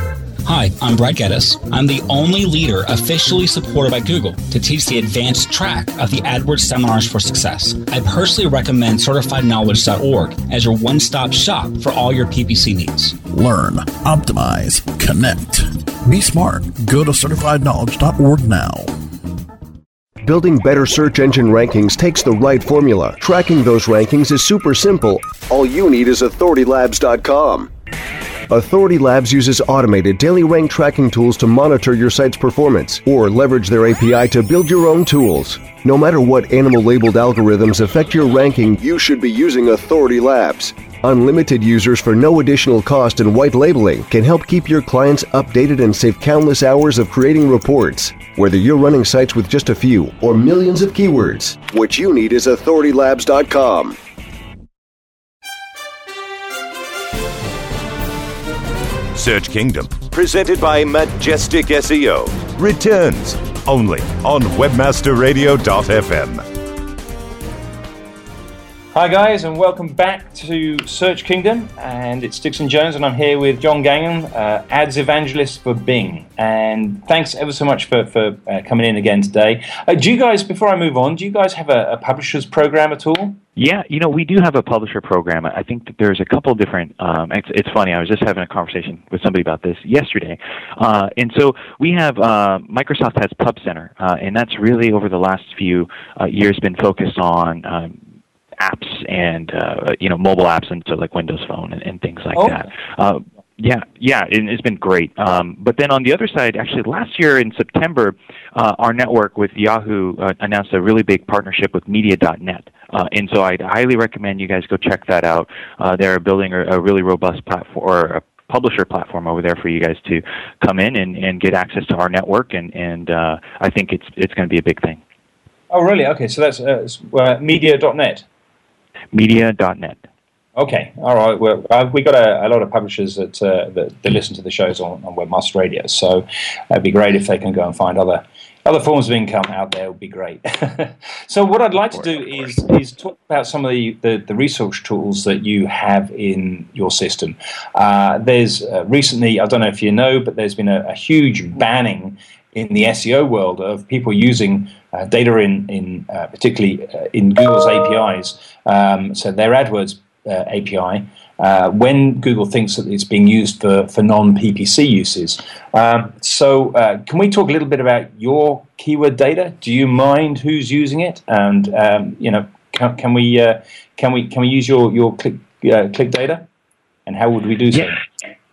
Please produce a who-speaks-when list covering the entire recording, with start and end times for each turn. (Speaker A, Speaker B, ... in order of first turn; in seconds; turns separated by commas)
Speaker A: 0.4-13.2, Speaker B: 13.3-18.9, Speaker C: 20.2-27.7, Speaker C: 28.5-54.0, Speaker D: 59.1-66.4, Speaker E: 68.9-83.4, Speaker F: 83.6-98.0, Speaker F: 98.6-125.0, Speaker E: 102.3-102.7, Speaker E: 125.7-128.2, Speaker F: 129.1-130.1, Speaker E: 130.6-176.5, Speaker E: 177.1-178.0